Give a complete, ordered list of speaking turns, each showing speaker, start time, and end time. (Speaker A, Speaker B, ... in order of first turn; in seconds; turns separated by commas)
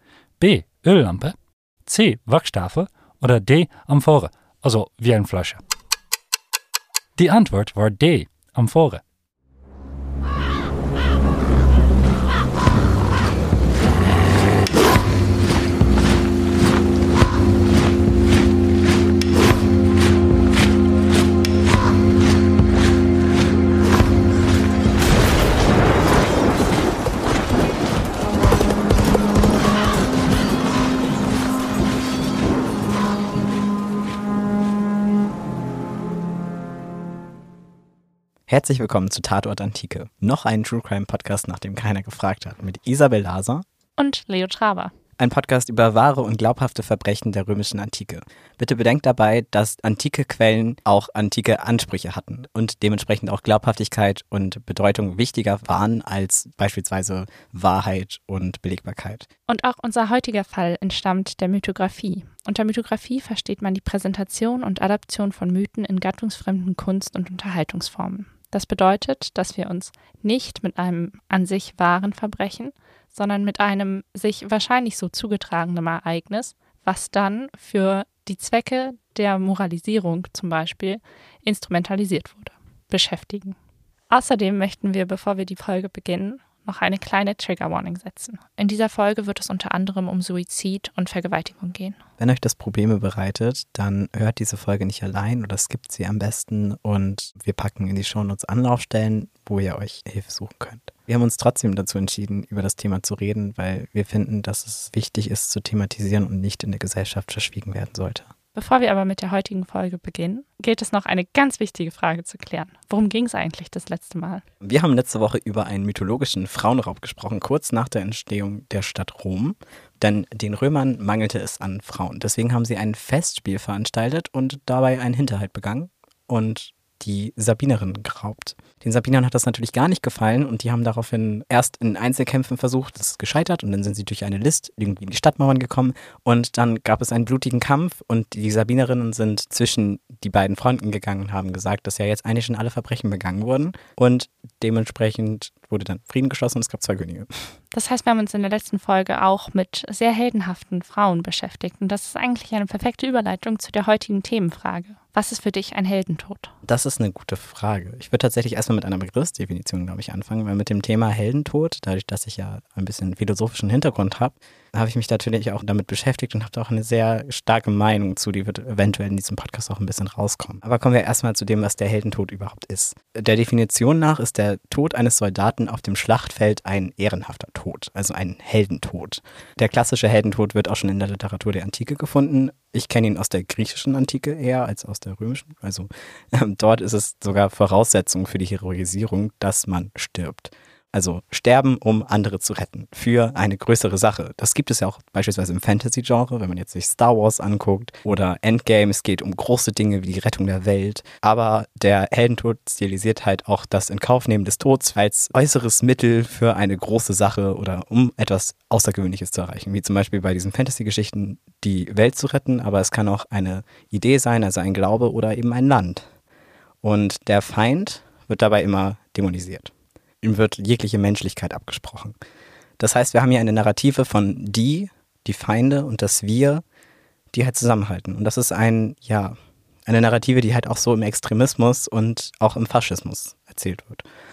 Speaker A: 0.4-5.6, Speaker A: 7.2-9.0, Speaker B: 38.5-43.6, Speaker C: 44.0-44.9, Speaker B: 45.2-59.3, Speaker C: 59.5-83.5, Speaker C: 84.1-92.0, Speaker B: 92.2-108.3, Speaker C: 108.5-114.4, Speaker B: 114.6-147.3, Speaker C: 147.7-156.5, Speaker B: 156.7-216.1, Speaker B: 216.8-222.2, Speaker B: 222.8-226.6, Speaker B: 227.3-229.3, Speaker B: 229.9-234.0